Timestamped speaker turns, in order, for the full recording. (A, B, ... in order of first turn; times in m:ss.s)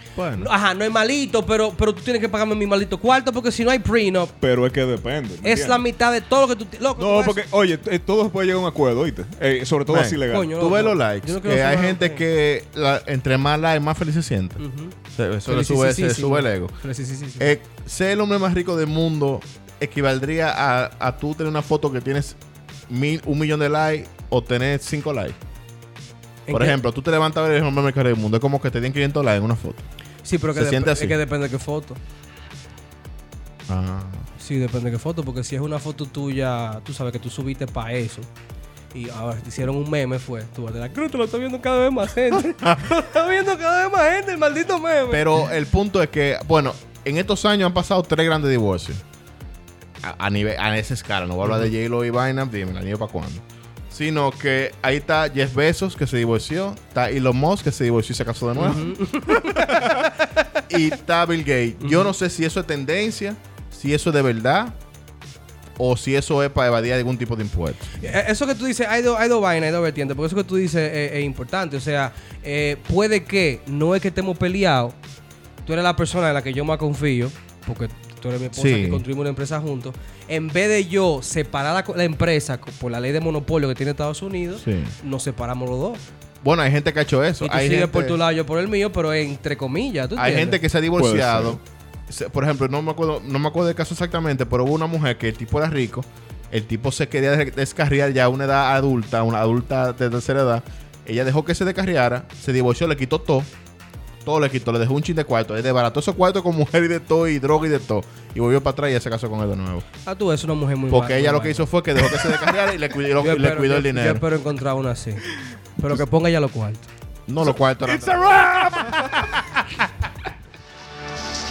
0:00.2-0:00.5 A
0:00.4-0:04.4 B
0:04.4-0:05.8 C
0:05.4-0:07.4 B
0:07.0-0:10.5 C
0:09.9-0:14.6 A
0:10.3-0:12.2 B
0:14.6-0:14.9 B
0:15.1-0:16.7 A
0:15.4-0:17.5 B
0:17.4-0:22.4 A
0:22.9-0:25.4 A
0:26.5-0:26.8 B
0:26.5-0:29.8 A
0:30.2-0:32.0 B
0:30.5-0:31.2 A
0:33.7-0:34.3 A
0:34.4-0:38.3 B
0:38.9-0:45.4 B
0:45.1-0:49.0 A
0:50.0-1:00.0 A
0:58.6-1:00.6 B
1:00.7-1:04.8 A
1:01.8-1:02.1 B
1:05.8-1:07.9 A
1:08.0-1:15.0 B
1:15.6-1:26.0 B
1:18.5-1:19.0 A
1:24.6-1:24.9 A
1:26.4-1:28.2 A
1:27.4-1:30.6 B
1:30.2-1:43.5 A
1:30.9-1:31.6 C
1:44.2-1:49.8 A
1:50.0-1:52.4 B
1:50.9-1:54.2 A
1:53.2-1:55.2 B
1:55.8-1:56.9 B
1:57.3-1:59.0 A
1:57.9-1:59.2 C
1:58.1-1:59.0 B